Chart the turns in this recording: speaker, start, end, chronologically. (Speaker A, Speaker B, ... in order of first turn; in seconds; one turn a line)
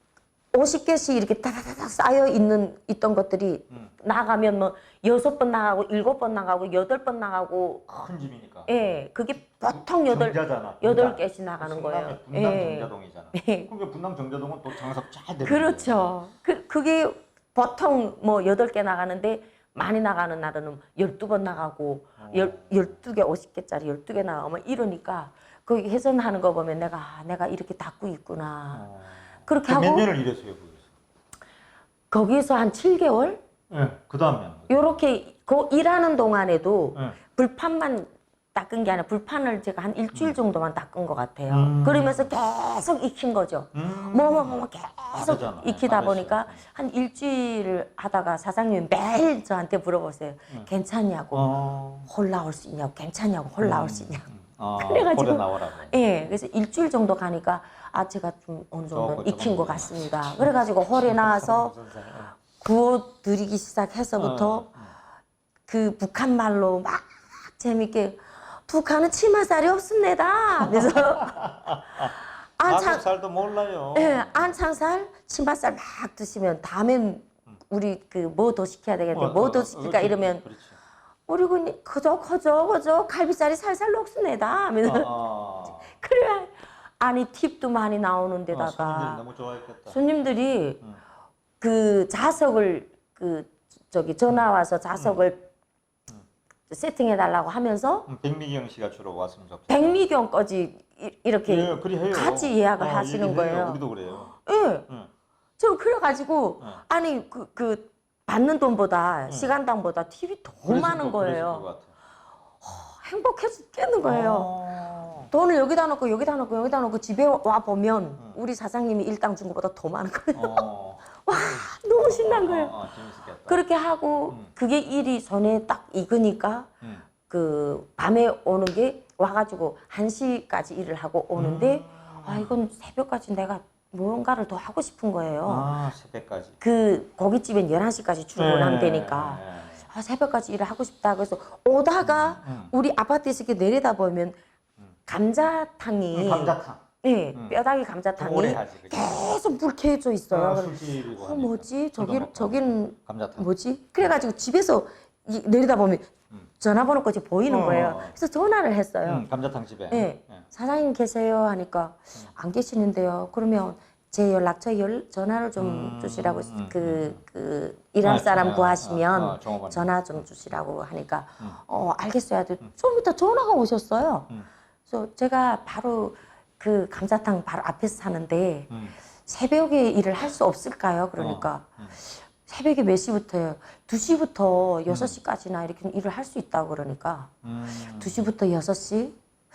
Speaker A: 0.5-7.8
Speaker B: 7.9-9.0
Speaker A: 8.7-13.7
Speaker B: 9.6-16.1
Speaker A: 15.4-28.9
Speaker B: 22.2-23.0
Speaker B: 28.7-30.9
Speaker A: 29.4-30.1
Speaker A: 32.1-33.4
Speaker B: 33.7-34.9
Speaker A: 34.7-51.5
Speaker B: 41.5-42.3
Speaker B: 43.7-46.6
Speaker B: 51.3-52.1
Speaker A: 52.1-54.3
Speaker B: 53.6-56.0
Speaker A: 54.8-61.7
Speaker B: 58.9-62.3
Speaker A: 62.5-64.7
Speaker B: 64.2-64.9
Speaker A: 65.7-71.4
Speaker B: 70.6-74.6
Speaker A: 72.6-73.0
Speaker A: 73.9-80.4
Speaker B: 79.1-80.8
Speaker A: 81.3-85.1
Speaker B: 84.8-85.9
Speaker A: 85.9-89.2
Speaker B: 88.5-90.0
Speaker A: 89.9-90.8
Speaker A: 91.6-95.5
Speaker B: 94.9-95.2
Speaker A: 96.7-98.1
Speaker B: 98.1-100.0
Speaker A: 99.7-103.8
Speaker B: 101.5-104.4
Speaker A: 104.4-104.9
Speaker A: 105.6-111.6
Speaker B: 110.7-111.9
Speaker A: 112.6-114.5
Speaker B: 114.0-115.3
Speaker A: 115.3-120.7
Speaker B: 120.3-123.6
Speaker A: 121.2-122.7
Speaker A: 123.5-126.7
Speaker B: 126.8-127.1
Speaker A: 127.3-135.7
Speaker B: 131.4-132.6
Speaker B: 135.4-136.6
Speaker A: 136.6-144.4
Speaker B: 138.3-139.8
Speaker B: 142.0-142.7
Speaker A: 145.1-159.2
Speaker B: 146.1-146.8
Speaker B: 148.2-149.3
Speaker B: 150.3-153.5
Speaker B: 157.5-158.2
Speaker B: 159.1-160.4
Speaker A: 159.9-174.3
Speaker B: 165.6-167.2
Speaker B: 168.0-170.3
Speaker A: 174.9-178.7
Speaker B: 178.7-178.9
Speaker A: 179.2-187.3
Speaker B: 181.2-181.9
Speaker B: 184.9-185.2
Speaker B: 187.4-188.3
Speaker A: 187.9-189.2